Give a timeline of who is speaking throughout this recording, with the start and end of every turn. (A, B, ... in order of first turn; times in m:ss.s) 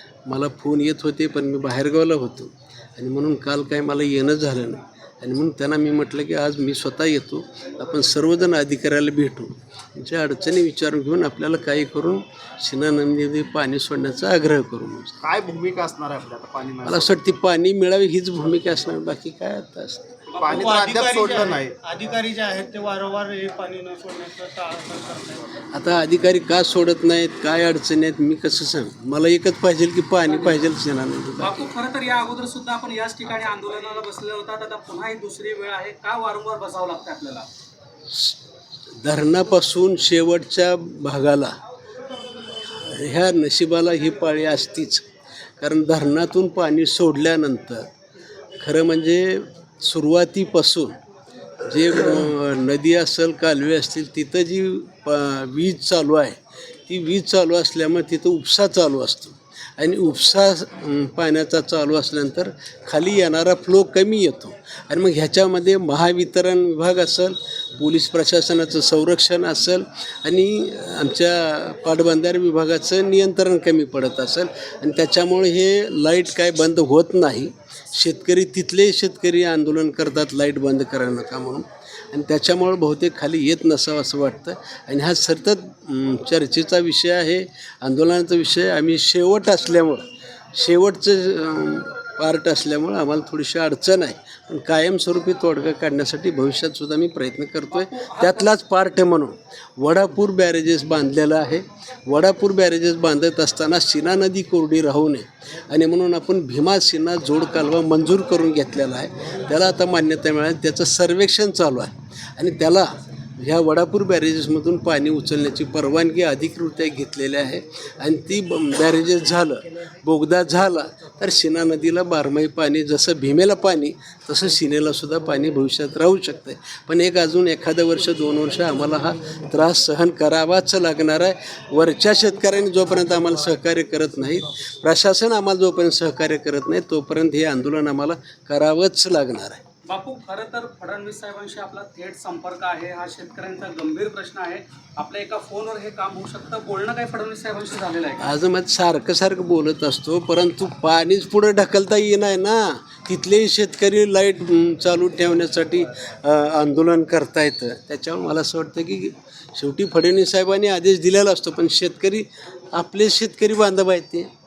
0:00.3-0:15.2 A
0:15.2-0:17.2 B
0:16.8-0:20.2 A
0:20.3-0:20.7 C
0:20.4-0:21.8 B
0:20.5-0:25.5 D
0:25.7-0:31.7 A
0:31.4-0:37.5 C
0:38.1-0:38.4 A
0:39.0-0:41.6 A
0:42.7-0:45.0 A
0:45.6-0:47.9 A
0:48.6-0:51.0 A
0:51.6-2:19.6 A
1:37.7-1:38.5 C
2:19.9-2:28.3 C
2:28.2-2:44.3 A